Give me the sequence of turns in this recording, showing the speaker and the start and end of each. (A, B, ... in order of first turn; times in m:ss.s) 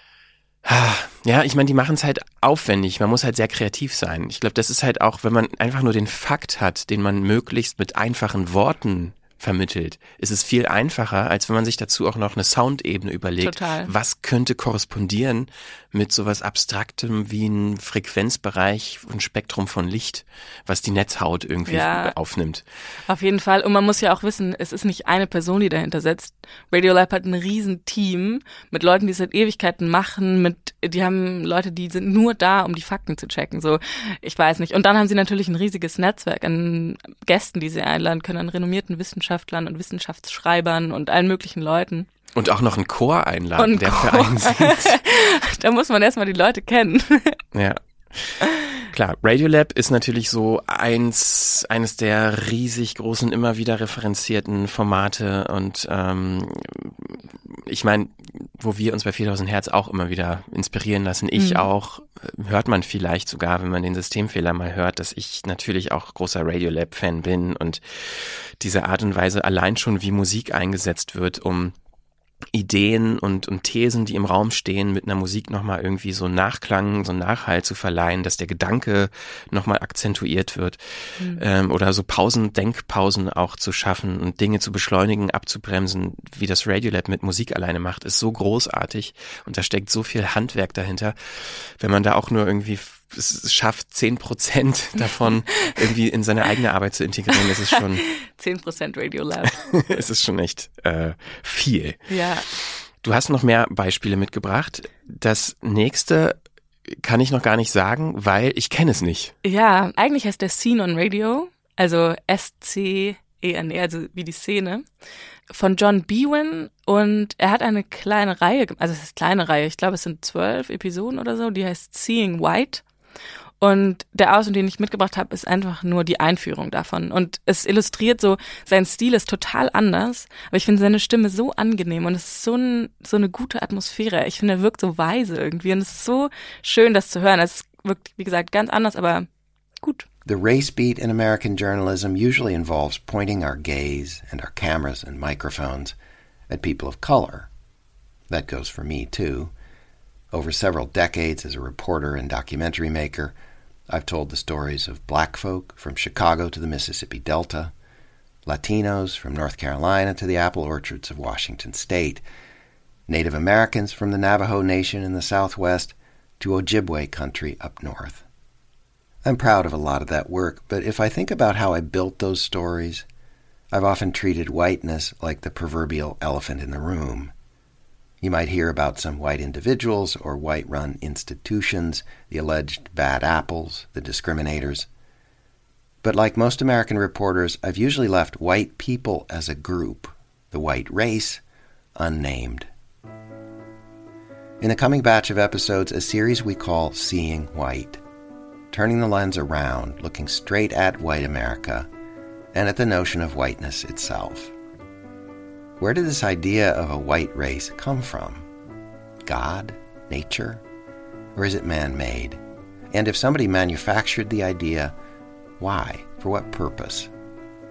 0:00.6-0:22.6 A
0:13.4-0:13.9 B
0:21.7-0:22.2 B
0:23.1-0:42.1 B
0:42.4-0:45.0 A
0:43.6-0:47.4 B
0:47.5-0:48.4 A
0:48.9-1:11.8 A
1:01.4-1:01.7 B
1:12.5-1:38.0 A
1:37.8-1:39.8 B
1:39.8-1:42.0 A
1:42.1-1:42.5 B
1:43.0-1:46.4 A
1:46.9-1:49.4 A
1:49.4-1:54.8 B
1:55.5-2:02.8 B
2:03.6-2:19.3 B
2:20.3-2:26.0 C
2:26.5-2:27.5 C
2:28.3-2:29.5 C
2:30.3-2:33.4 C
2:33.9-2:37.7 C
2:38.5-2:42.2 C
2:43.1-2:48.2 C
2:49.2-2:53.0 C
2:53.7-2:57.3 C
2:58.2-3:04.9 C
3:06.0-3:11.4 C
3:12.0-3:12.7 C
3:14.6-3:18.0 C
3:18.7-3:21.9 C
3:22.5-3:24.5 C
3:25.8-3:28.5 C
3:29.2-3:30.6 C
3:31.4-3:32.4 C
3:32.9-3:35.0 C
3:35.6-3:37.1 C